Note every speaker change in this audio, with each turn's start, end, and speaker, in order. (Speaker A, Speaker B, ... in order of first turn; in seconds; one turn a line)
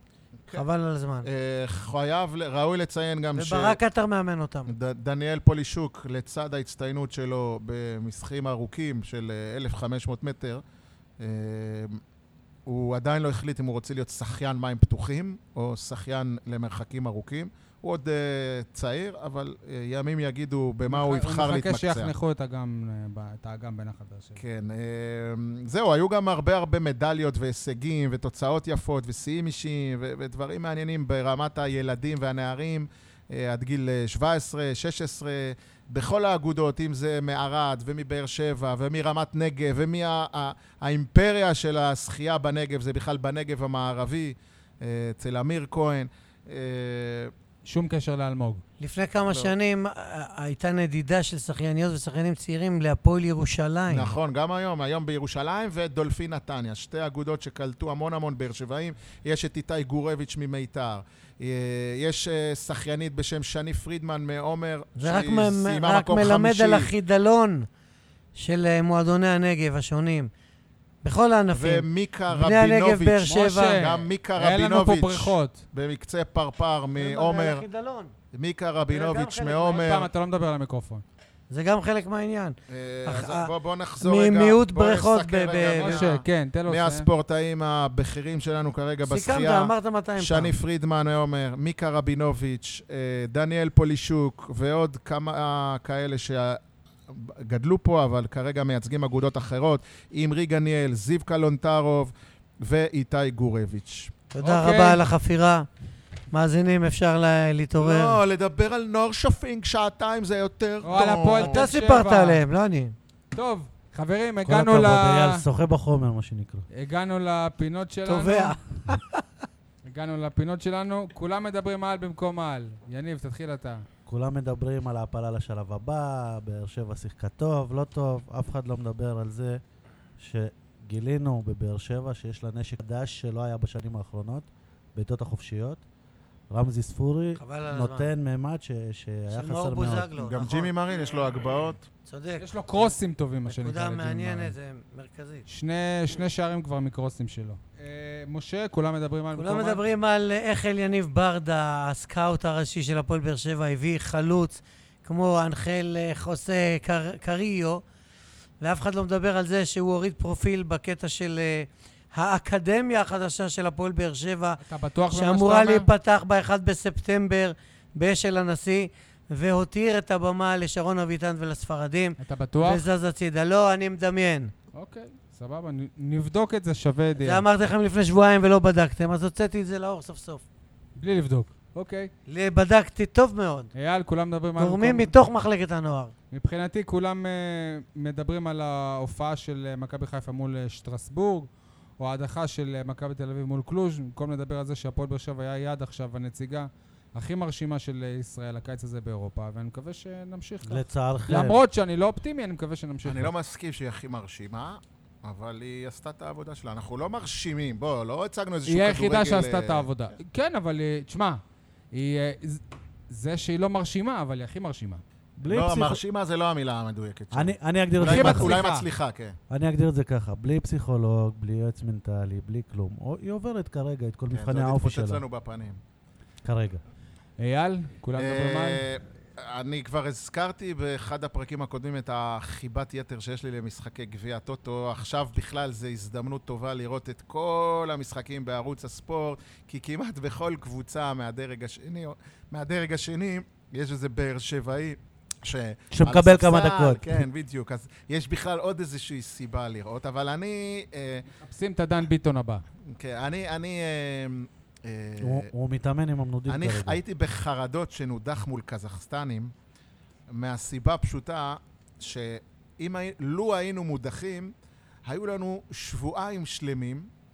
Speaker A: 0.5-1.3
Speaker B: 1.2-3.8
Speaker A: 3.3-4.7
Speaker B: 4.7-10.6
Speaker B: 11.2-12.0
Speaker B: 12.7-22.1
Speaker C: 20.9-24.4
Speaker B: 24.4-47.3
Speaker C: 47.6-48.6
Speaker A: 48.8-54.1
Speaker B: 53.9-66.9
Speaker A: 65.0-67.7
Speaker A: 68.3-70.3
Speaker A: 71.0-73.8
Speaker B: 71.5-77.6
Speaker C: 73.3-75.6
Speaker A: 77.0-78.1
Speaker B: 78.3-80.1
Speaker A: 78.9-79.9
Speaker C: 79.7-81.0
Speaker A: 81.5-86.0
Speaker B: 82.7-104.1
Speaker C: 85.8-87.1
Speaker A: 89.0-90.5
Speaker A: 104.3-105.7
Speaker C: 104.4-105.0
Speaker A: 106.3-108.2
Speaker B: 107.8-111.6
Speaker C: 110.8-112.4
Speaker A: 111.4-112.9
Speaker C: 113.3-115.4
Speaker D: 114.4-116.7
Speaker C: 116.7-118.6
Speaker A: 118.0-119.2
Speaker C: 119.8-123.8
Speaker D: 124.1-129.6
Speaker D: 130.2-135.8
Speaker D: 136.5-140.1
Speaker A: 137.4-138.1
Speaker A: 139.3-140.7
Speaker B: 140.2-141.8
Speaker A: 142.1-142.9
Speaker C: 142.4-144.5
Speaker A: 143.5-145.4
Speaker C: 145.5-149.8
Speaker A: 149.3-157.8
Speaker A: 158.6-164.6
Speaker C: 164.6-165.9
Speaker A: 165.1-174.5
Speaker C: 172.2-172.8
Speaker C: 174.7-177.4
Speaker A: 177.2-180.4
Speaker C: 180.9-182.1
Speaker A: 182.3-183.7
Speaker C: 183.7-185.1
Speaker A: 184.6-186.1
Speaker C: 186.3-203.3
Speaker D: 200.7-201.6
Speaker B: 203.0-209.9
Speaker C: 208.7-211.4
Speaker C: 211.9-215.0
Speaker D: 215.4-216.0
Speaker B: 215.4-219.4
Speaker D: 217.3-218.6
Speaker C: 218.0-218.8
Speaker D: 219.5-225.2
Speaker B: 224.3-225.8
Speaker D: 226.4-226.8
Speaker C: 227.4-228.8
Speaker B: 228.2-251.3
Speaker D: 245.9-247.2
Speaker C: 251.4-252.6
Speaker B: 252.9-255.5
Speaker D: 255.2-257.0
Speaker B: 256.5-259.5
Speaker B: 260.3-264.5
Speaker B: 265.1-267.1